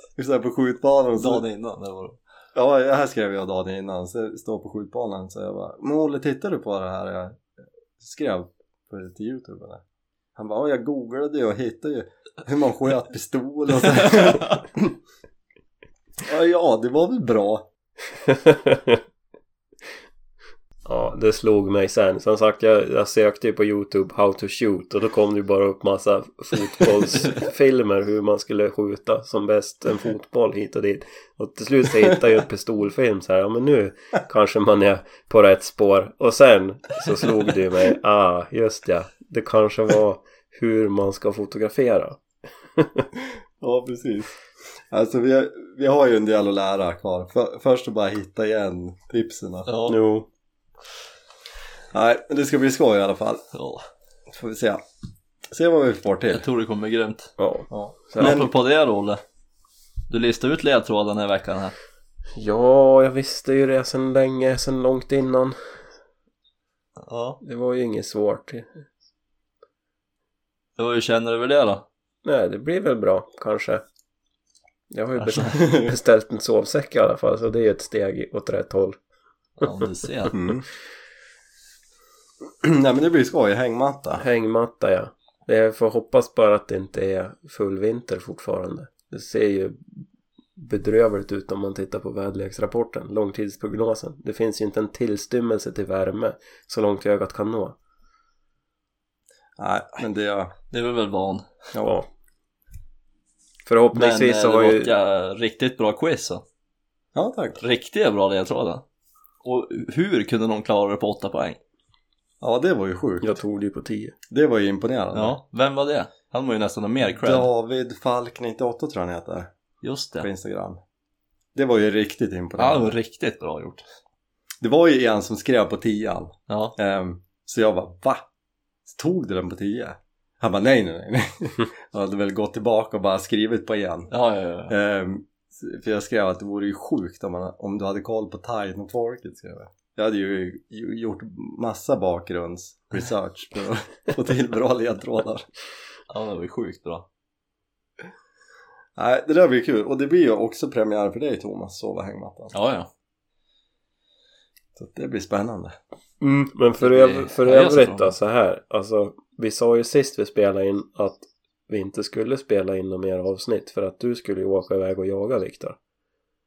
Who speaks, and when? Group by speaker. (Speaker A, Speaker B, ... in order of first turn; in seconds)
Speaker A: 0.2-1.5, 2.5-7.4, 8.0-9.8, 10.4-15.0, 16.2-17.7, 43.6-44.4, 44.9-49.7, 51.9-53.5, 54.3-54.8, 55.5-56.5, 57.7-58.5, 75.5-75.9, 80.3-80.6, 82.6-84.2, 99.6-100.5, 101.7-102.0, 107.1-107.6, 112.4-113.4, 114.3-115.4, 117.0-119.5, 120.2-120.8, 121.5-122.9, 124.6-128.2, 128.9-134.1, 134.7-145.5, 149.0-152.5, 154.8-155.8
Speaker B: 1.2-2.2, 14.2-14.5, 49.7-50.0, 53.5-53.9, 56.3-57.3, 58.2-59.2, 60.1-61.8, 67.0-67.4, 70.8-71.9, 75.2-75.6, 79.6-80.4, 100.7-101.5, 103.9-106.4, 107.6-108.8, 109.4-111.6, 115.1-117.5, 119.8-120.3, 122.6-123.8, 126.5-126.8, 134.1-134.8, 146.1-147.1, 152.5-152.9, 156.8-158.2
Speaker C: 18.2-19.0, 20.9-42.2, 42.8-43.1, 49.9-50.3, 57.4-58.5, 62.3-65.6, 67.4-68.8, 72.2-73.8, 74.9-79.0, 84.2-90.0, 90.6-97.8, 103.7-104.9, 113.2-114.2, 156.2-165.8